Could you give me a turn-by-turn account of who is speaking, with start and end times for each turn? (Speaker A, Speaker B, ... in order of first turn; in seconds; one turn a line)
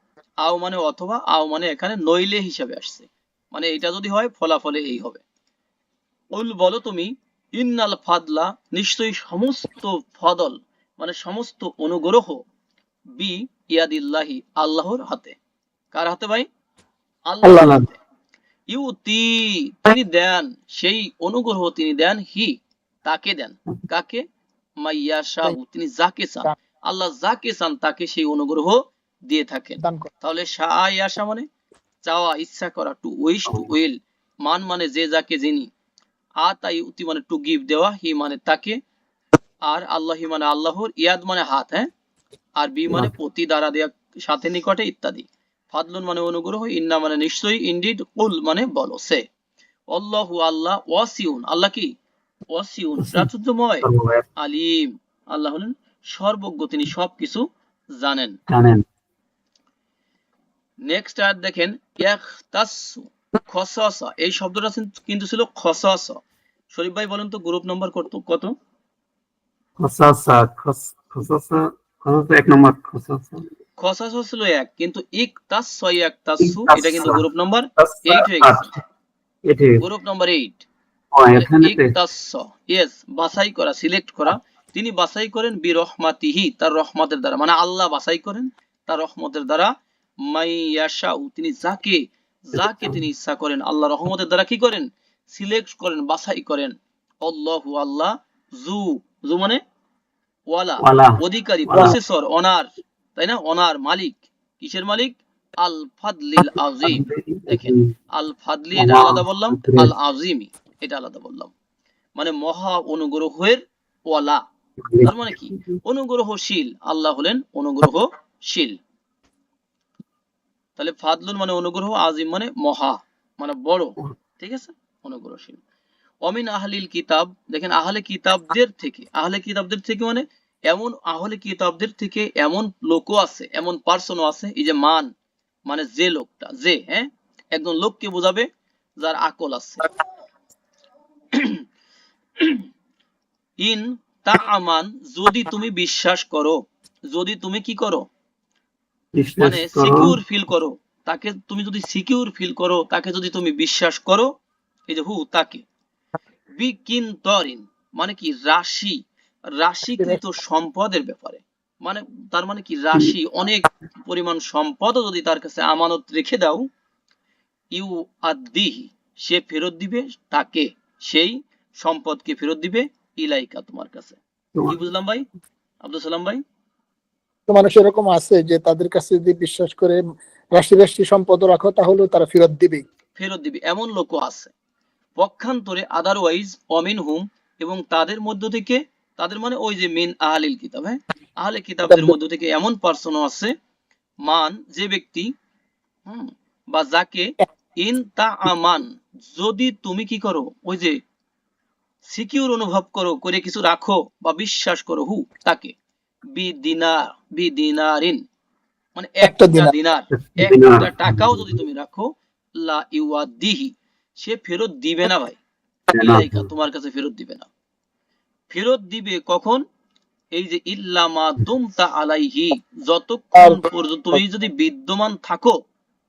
Speaker A: 0.4-5.2
Speaker A: 6.3-12.4
Speaker A: 13.1-15.3
Speaker A: 15.9-16.5
Speaker A: 17.3-17.9
Speaker B: 17.4-17.9
Speaker A: 18.7-24.2
Speaker A: 24.8-31.4
Speaker C: 29.8-30.1
Speaker A: 32.0-35.7
Speaker A: 36.4-38.8
Speaker A: 39.6-41.9
Speaker A: 42.6-49.2
Speaker A: 49.9-51.9
Speaker A: 52.5-53.9
Speaker B: 53.0-53.3
Speaker B: 53.8-54.2
Speaker A: 54.4-58.4
Speaker B: 58.5-58.8
Speaker A: 60.8-68.5
Speaker B: 69.8-73.5
Speaker A: 73.8-78.7
Speaker B: 76.4-77.2
Speaker B: 77.8-78.7
Speaker B: 79.4-79.8
Speaker A: 79.8-80.7
Speaker B: 81.1-81.9
Speaker A: 81.3-89.7
Speaker A: 90.2-99.6
Speaker A: 100.5-111.5
Speaker B: 100.8-102.0
Speaker B: 106.8-107.9
Speaker B: 108.8-109.9
Speaker A: 112.2-114.4
Speaker B: 114.8-115.8
Speaker A: 115.0-118.8
Speaker A: 120.8-125.6
Speaker A: 126.2-135.1
Speaker A: 135.7-139.9
Speaker A: 141.3-141.6
Speaker A: 142.4-142.7
Speaker A: 143.6-148.1
Speaker B: 149.1-150.2
Speaker A: 149.4-154.3
Speaker A: 154.9-155.6
Speaker A: 156.6-159.0
Speaker A: 159.6-166.7
Speaker A: 167.7-175.2
Speaker A: 175.8-176.4
Speaker C: 177.5-180.0
Speaker C: 180.5-182.8
Speaker A: 183.1-184.5
Speaker A: 185.2-193.5
Speaker C: 191.9-192.1
Speaker A: 194.2-195.3
Speaker A: 196.1-201.0
Speaker A: 202.0-205.7
Speaker A: 206.3-208.2
Speaker A: 208.9-215.4
Speaker C: 209.2-209.7
Speaker B: 210.1-211.6
Speaker B: 215.9-216.5
Speaker A: 215.9-217.5
Speaker A: 218.5-219.6
Speaker A: 220.3-225.6
Speaker C: 223.4-223.7